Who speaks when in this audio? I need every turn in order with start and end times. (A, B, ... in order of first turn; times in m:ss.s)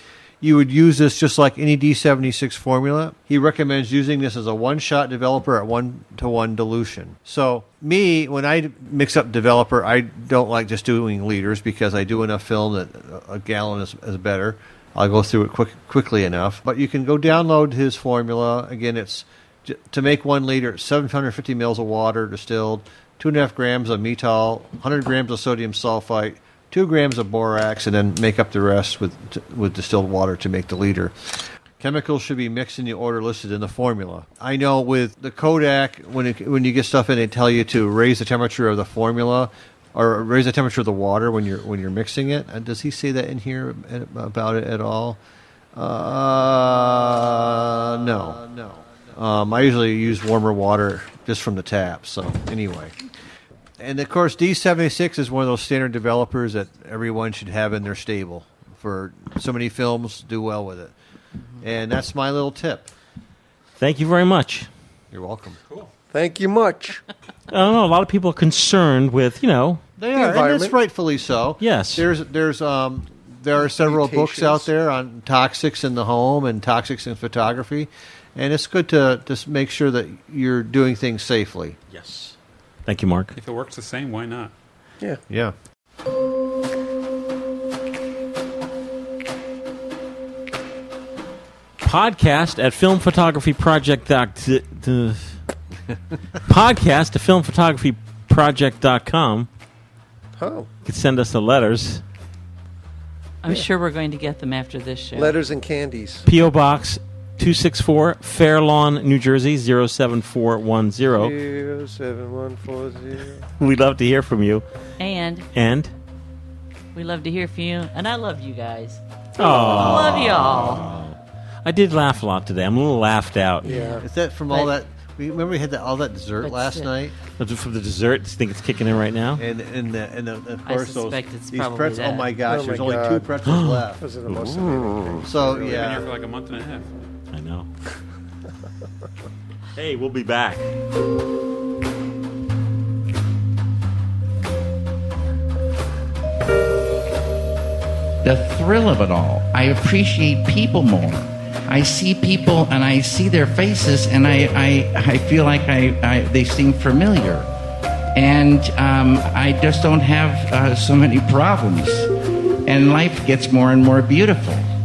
0:00.4-0:45.2 A
0:45.8-0:53.0 A
0:53.8-1:00.9 A
1:01.6-1:02.9 A
1:03.8-1:04.7 B
1:05.1-1:05.6 A
1:06.1-1:07.0 C
1:07.5-1:09.8 B
1:10.0-1:21.8 A
1:10.1-1:10.8 C
1:11.6-1:12.1 B
1:13.7-1:14.7 C
1:21.9-1:22.4 B
1:22.9-1:23.3 B
1:23.4-1:24.5 D
1:31.8-1:35.4 B
1:36.4-1:39.5 B
1:40.4-1:40.7 C
1:40.8-1:42.0 B
1:43.4-1:45.4 E
1:45.2-1:46.3 C
1:46.3-1:51.4 B
1:51.1-1:53.4 C
1:53.6-1:54.6 B
1:55.0-1:55.5 E
1:55.5-1:55.9 B
1:57.0-1:59.0 E
1:59.4-2:03.7 B
1:59.4-2:01.0 A
1:59.5-2:00.8 E
2:03.6-2:04.0 C
2:03.6-2:04.8 E
2:04.0-2:07.2 A
2:06.4-2:06.9 E
2:07.4-2:09.4 B
2:09.4-2:16.1 A
2:10.7-2:12.4 E
2:12.5-2:13.3 C
2:13.5-2:13.9 B
2:14.0-2:15.8 C
2:15.6-2:16.9 D
2:17.3-2:17.7 B
2:19.8-2:20.7 B
2:28.2-2:37.5 F
2:38.2-2:42.1 F
2:42.7-2:44.6 F